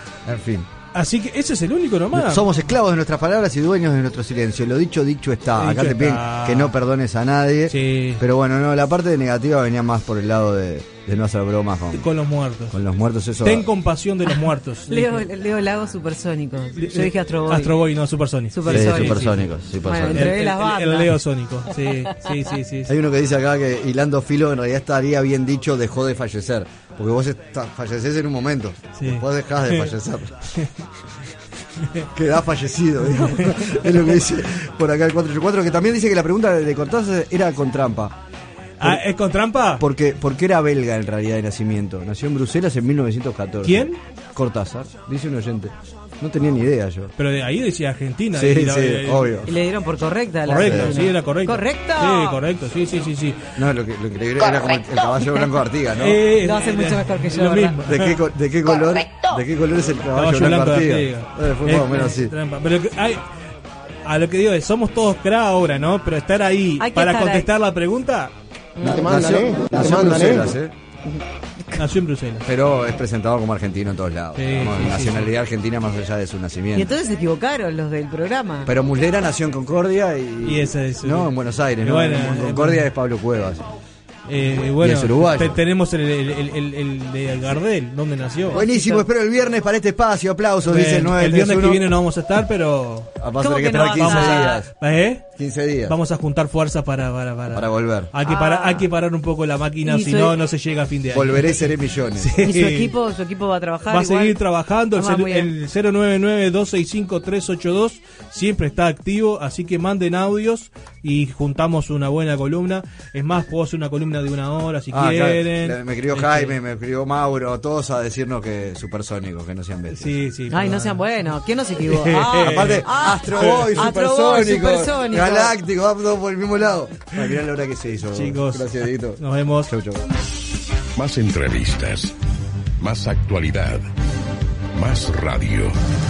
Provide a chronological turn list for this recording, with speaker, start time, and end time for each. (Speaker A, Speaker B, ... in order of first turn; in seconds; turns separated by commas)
Speaker A: 0.2-0.7, Speaker B: 0.9-2.5, Speaker A: 2.1-12.1, Speaker B: 5.6-6.7, Speaker B: 7.7-8.2, Speaker B: 11.9-12.8, Speaker A: 12.7-13.7, Speaker B: 13.4-15.2, Speaker C: 14.9-17.8, Speaker B: 16.8-19.4, Speaker C: 18.5-21.1, Speaker A: 18.7-20.4, Speaker B: 20.1-22.9, Speaker A: 22.9-30.4, Speaker B: 28.9-29.9, Speaker A: 32.1-38.2, Speaker B: 33.2-33.9, Speaker B: 38.8-39.8, Speaker A: 39.8-47.1, Speaker B: 43.6-44.0, Speaker B: 47.2-49.5, Speaker A: 48.3-49.5, Speaker C: 49.5-52.4, Speaker B: 50.4-53.5, Speaker A: 50.6-51.0, Speaker A: 53.6-56.2, Speaker B: 56.0-58.2, Speaker C: 56.4-57.8, Speaker A: 57.9-62.3, Speaker B: 60.1-63.2, Speaker B: 64.0-68.3, Speaker C: 66.8-67.5, Speaker C: 68.8-69.1, Speaker A: 68.8-70.7, Speaker C: 71.0-71.8, Speaker B: 71.8-72.5, Speaker A: 72.4-76.9, Speaker B: 74.4-75.3, Speaker C: 76.7-78.7, Speaker A: 78.6-83.6, Speaker B: 80.4-81.3, Speaker B: 81.8-82.9, Speaker B: 84.3-89.0, Speaker A: 84.8-85.6, Speaker A: 88.5-91.8, Speaker C: 88.5-88.9, Speaker B: 90.7-93.1, Speaker A: 93.2-94.7, Speaker C: 93.4-94.6, Speaker B: 93.7-95.3, Speaker A: 95.3-95.9, Speaker B: 95.9-101.7, Speaker A: 97.5-98.1, Speaker C: 98.2-98.9, Speaker C: 99.8-100.4, Speaker A: 101.1-102.3, Speaker B: 102.2-102.9, Speaker C: 102.4-104.4, Speaker B: 103.9-116.6, Speaker C: 104.9-105.5, Speaker A: 114.9-120.2, Speaker B: 120.0-121.0, Speaker C: 120.5-125.5, Speaker B: 121.8-123.9, Speaker A: 122.4-130.0, Speaker B: 128.1-129.7, Speaker D: 130.9-132.1, Speaker D: 132.8-133.8, Speaker D: 134.7-135.7